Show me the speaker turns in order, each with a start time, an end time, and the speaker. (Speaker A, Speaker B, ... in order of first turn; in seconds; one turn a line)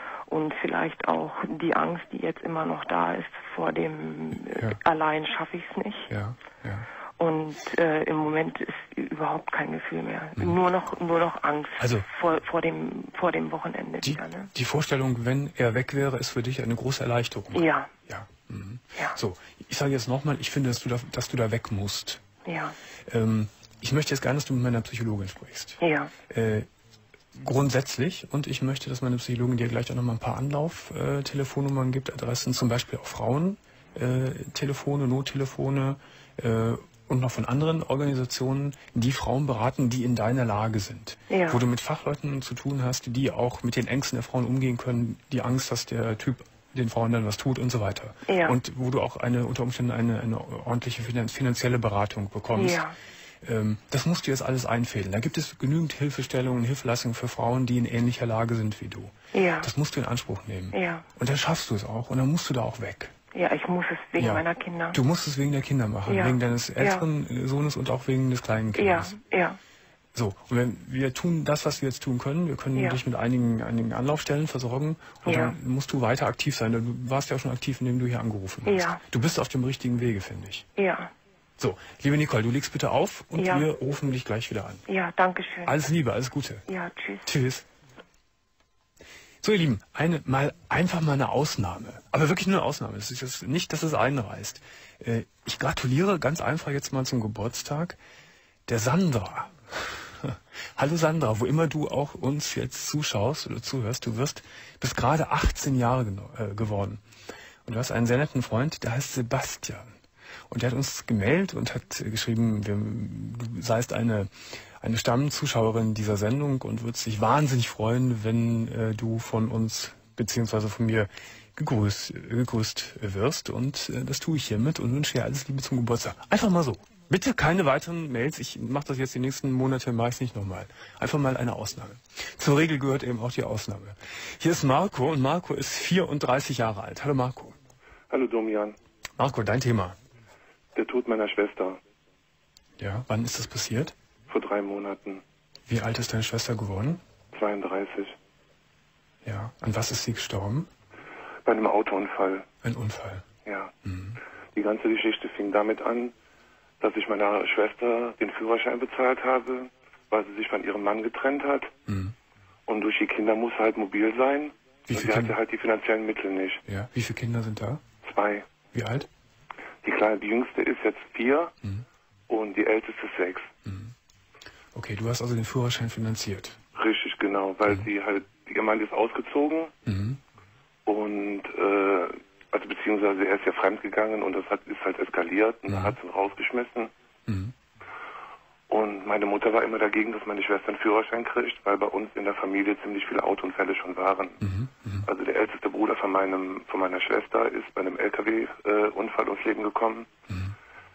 Speaker A: 0.3-6.1
Speaker B: 4.5-4.8
Speaker B: 6.1-6.9
Speaker A: 7.2-14.5
Speaker B: 11.8-12.1
Speaker B: 14.0-22.2
Speaker A: 17.5-17.9
Speaker A: 22.4-22.8
Speaker B: 23.1-26.7
Speaker A: 25.8-26.1
Speaker B: 27.3-52.8
Speaker A: 41.3-41.6
Speaker A: 48.3-48.6
Speaker A: 52.5-52.9
Speaker B: 53.4-63.1
Speaker A: 59.3-59.7
Speaker A: 60.7-61.0
Speaker A: 63.3-65.0
Speaker B: 64.2-69.1
Speaker A: 66.1-67.0
Speaker A: 68.8-69.6
Speaker B: 70.1-80.6
Speaker A: 72.8-73.0
Speaker A: 75.2-75.5
Speaker A: 78.6-79.0
Speaker A: 80.8-81.1
Speaker B: 81.6-84.8
Speaker A: 83.3-83.7
Speaker A: 84.9-85.7
Speaker B: 85.6-86.7
Speaker A: 86.7-87.3
Speaker B: 87.2-87.7
Speaker B: 89.4-98.0
Speaker B: 98.7-107.0
Speaker B: 107.6-110.0
Speaker B: 110.5-137.6
Speaker C: 138.1-138.8
Speaker B: 139.2-140.0
Speaker C: 140.7-141.8
Speaker B: 142.8-143.9
Speaker C: 144.3-145.2
Speaker B: 145.7-147.0
Speaker C: 147.3-148.2
Speaker B: 149.2-150.7
Speaker C: 151.4-152.5
Speaker B: 152.6-153.2
Speaker C: 153.4-153.7
Speaker B: 153.8-154.2
Speaker C: 154.5-156.1
Speaker C: 156.8-161.7
Speaker B: 161.9-162.2
Speaker C: 162.7-166.6
Speaker B: 164.9-165.3
Speaker B: 166.7-167.8
Speaker C: 168.0-168.5
Speaker B: 168.7-169.1
Speaker C: 169.8-171.5
Speaker C: 172.3-173.5
Speaker B: 173.6-173.9
Speaker B: 174.7-176.6
Speaker C: 176.8-179.7
Speaker B: 179.8-180.2
Speaker C: 180.8-186.9
Speaker B: 185.7-186.0
Speaker B: 187.3-187.5
Speaker C: 188.7-194.4
Speaker B: 194.4-195.1
Speaker C: 195.0-200.1